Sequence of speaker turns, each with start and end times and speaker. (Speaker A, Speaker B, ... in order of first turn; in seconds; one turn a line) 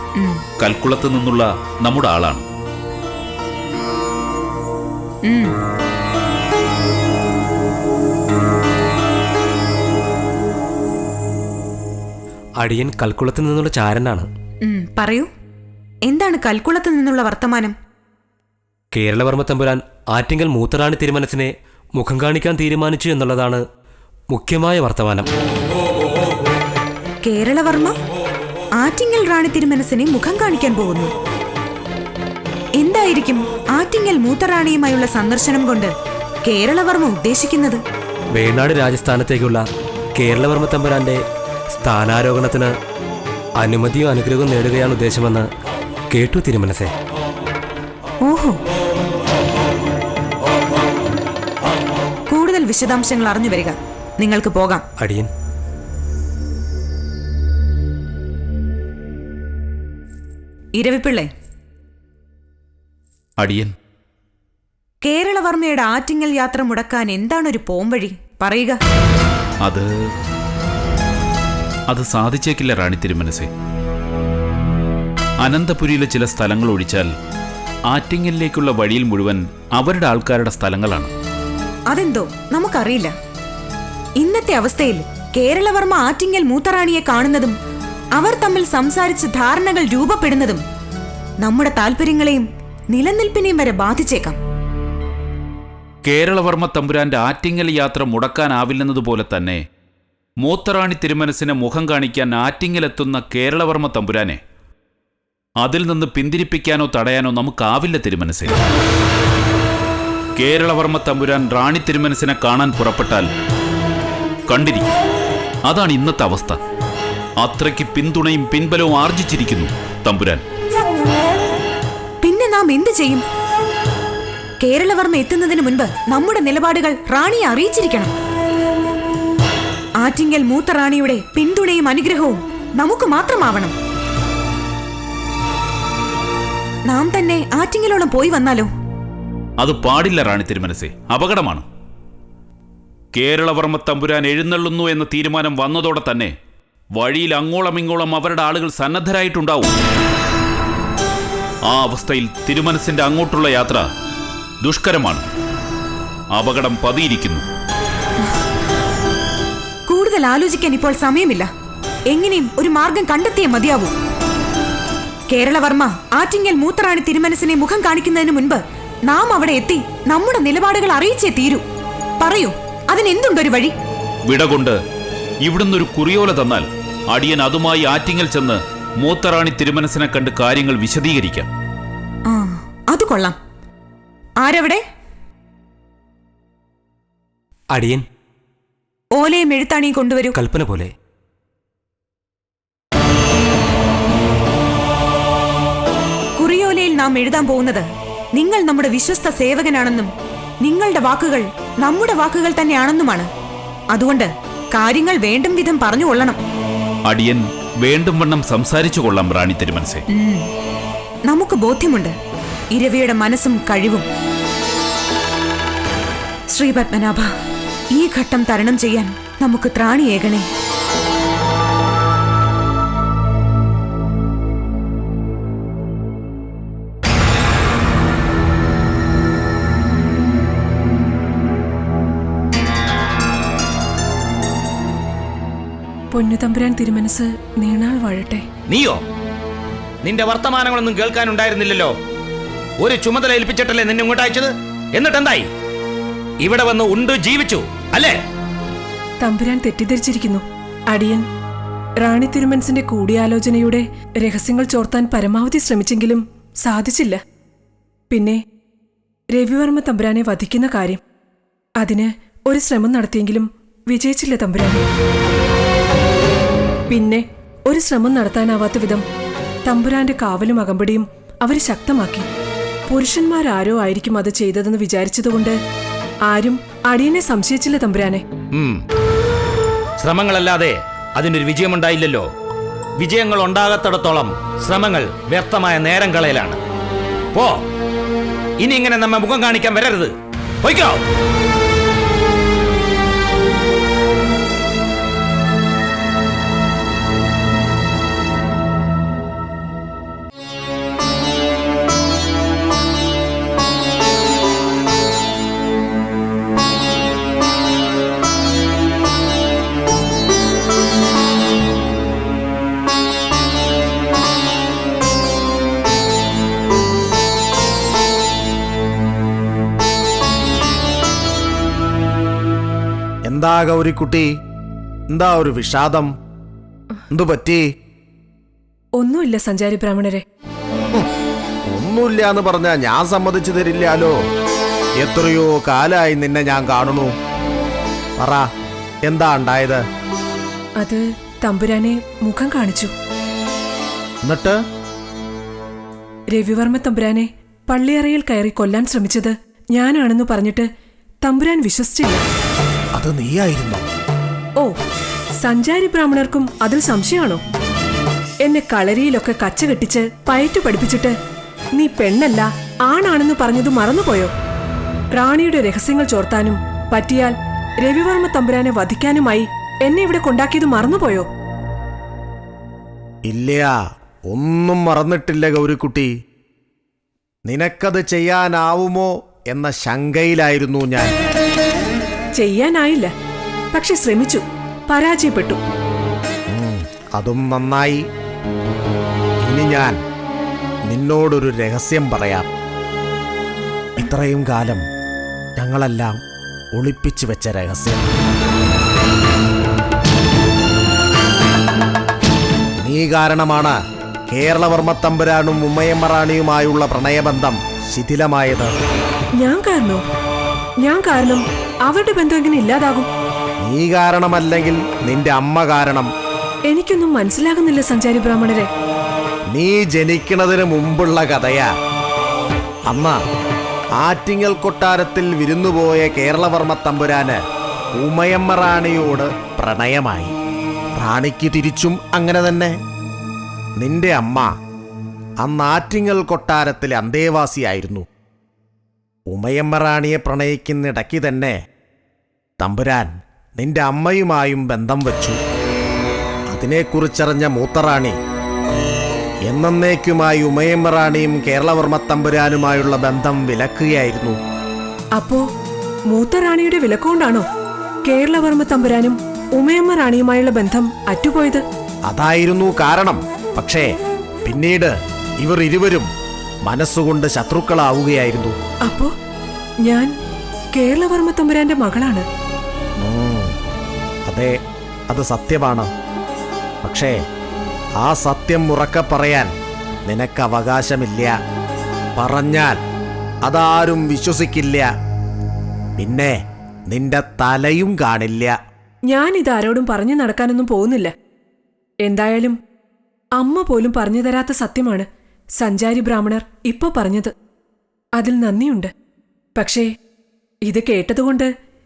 Speaker A: 0.2-0.5
Speaker B: 0.6-2.4
Speaker A: 5.3-5.5
Speaker C: 12.6-14.3
Speaker A: 14.6-15.3
Speaker A: 16.1-17.7
Speaker C: 18.9-23.6
Speaker C: 24.3-25.3
Speaker A: 27.2-27.9
Speaker A: 28.8-31.1
Speaker A: 32.8-35.9
Speaker A: 36.5-37.8
Speaker C: 38.4-39.6
Speaker C: 40.1-41.2
Speaker C: 41.7-42.7
Speaker C: 43.6-45.5
Speaker C: 46.1-46.9
Speaker A: 48.2-48.6
Speaker A: 52.3-54.8
Speaker C: 55.0-55.3
Speaker A: 60.8-61.3
Speaker B: 63.4-63.7
Speaker A: 65.0-68.8
Speaker B: 71.9-73.5
Speaker B: 75.4-77.1
Speaker B: 77.9-81.1
Speaker A: 81.9-83.1
Speaker A: 84.2-87.5
Speaker A: 88.2-90.6
Speaker A: 91.4-94.4
Speaker B: 96.0-99.6
Speaker B: 100.4-104.4
Speaker B: 105.6-108.6
Speaker B: 110.4-113.3
Speaker B: 114.5-114.9
Speaker B: 115.7-116.6
Speaker B: 117.4-120.4
Speaker A: 122.2-123.2
Speaker A: 124.6-128.1
Speaker A: 130.0-133.7
Speaker A: 136.9-138.7
Speaker B: 139.6-141.7
Speaker B: 143.2-146.3
Speaker B: 147.0-149.7
Speaker B: 151.7-153.8
Speaker B: 154.6-155.2
Speaker B: 156.3-157.4
Speaker A: 159.9-161.5
Speaker A: 162.1-163.9
Speaker A: 165.3-171.6
Speaker A: 172.2-173.7
Speaker B: 174.3-174.8
Speaker B: 175.4-181.5
Speaker A: 182.3-183.4
Speaker A: 184.4-184.8
Speaker C: 187.7-188.0
Speaker A: 189.2-190.4
Speaker C: 190.3-190.9
Speaker A: 196.4-200.1
Speaker A: 200.6-203.3
Speaker A: 203.9-206.4
Speaker B: 207.1-210.1
Speaker A: 210.1-210.4
Speaker A: 211.3-212.1
Speaker A: 212.7-214.1
Speaker A: 216.5-217.3
Speaker A: 217.9-220.5
Speaker D: 236.1-238.4
Speaker E: 238.7-239.0
Speaker E: 240.0-241.9
Speaker E: 242.8-245.5
Speaker E: 246.4-248.2
Speaker D: 249.2-251.2
Speaker D: 252.0-257.2
Speaker D: 258.1-258.4
Speaker D: 259.3-261.0
Speaker D: 261.8-264.8
Speaker D: 266.9-269.0
Speaker D: 269.6-272.3
Speaker D: 272.9-275.6
Speaker D: 276.3-278.2
Speaker E: 278.5-278.8
Speaker E: 280.0-282.3
Speaker E: 283.0-286.6
Speaker E: 287.3-287.6
Speaker E: 288.6-291.0
Speaker F: 323.3-324.3
Speaker F: 325.1-326.1
Speaker F: 327.1-327.6
Speaker D: 329.0-330.2
Speaker F: 331.7-334.1
Speaker F: 335.0-337.1
Speaker F: 338.2-338.4
Speaker F: 339.1-339.8
Speaker D: 340.8-342.9
Speaker F: 344.2-344.6
Speaker D: 346.3-350.7
Speaker D: 351.2-352.2
Speaker F: 353.0-353.9
Speaker D: 355.4-357.4
Speaker D: 358.4-361.1
Speaker D: 361.8-364.3
Speaker D: 365.1-371.3
Speaker F: 373.3-373.7
Speaker F: 374.3-376.1
Speaker F: 377.5-381.1
Speaker D: 382.4-383.1
Speaker D: 383.7-385.6
Speaker F: 386.5-388.0
Speaker F: 389.5-390.0
Speaker F: 390.9-392.5
Speaker F: 394.0-394.8
Speaker F: 395.6-396.2
Speaker F: 396.7-398.1
Speaker F: 402.8-403.8
Speaker F: 404.3-408.7
Speaker D: 409.4-410.0
Speaker D: 410.8-413.1
Speaker F: 413.6-416.1
Speaker D: 416.7-418.7
Speaker F: 419.5-421.7
Speaker F: 422.9-423.2
Speaker F: 424.0-427.4
Speaker F: 428.0-430.3
Speaker F: 431.0-432.7
Speaker F: 433.8-434.5
Speaker F: 435.4-438.1
Speaker F: 439.3-441.6
Speaker F: 442.6-445.4
Speaker F: 446.5-448.1
Speaker F: 449.5-454.4
Speaker D: 455.2-455.4
Speaker D: 456.1-457.5
Speaker D: 458.1-461.6
Speaker F: 462.1-463.9
Speaker F: 464.5-466.1
Speaker F: 466.7-468.6
Speaker D: 469.8-470.1
Speaker D: 470.7-472.3
Speaker F: 473.0-473.5
Speaker F: 474.3-474.5
Speaker F: 475.1-475.9
Speaker F: 476.8-477.1
Speaker F: 478.0-479.5
Speaker F: 480.1-481.3
Speaker F: 482.2-482.8
Speaker F: 483.4-484.9
Speaker F: 486.0-486.4
Speaker F: 486.9-488.6
Speaker D: 489.1-491.1
Speaker D: 492.0-492.6
Speaker D: 493.4-495.1
Speaker D: 495.6-497.3
Speaker D: 498.2-498.9
Speaker D: 499.6-499.9
Speaker D: 500.7-501.5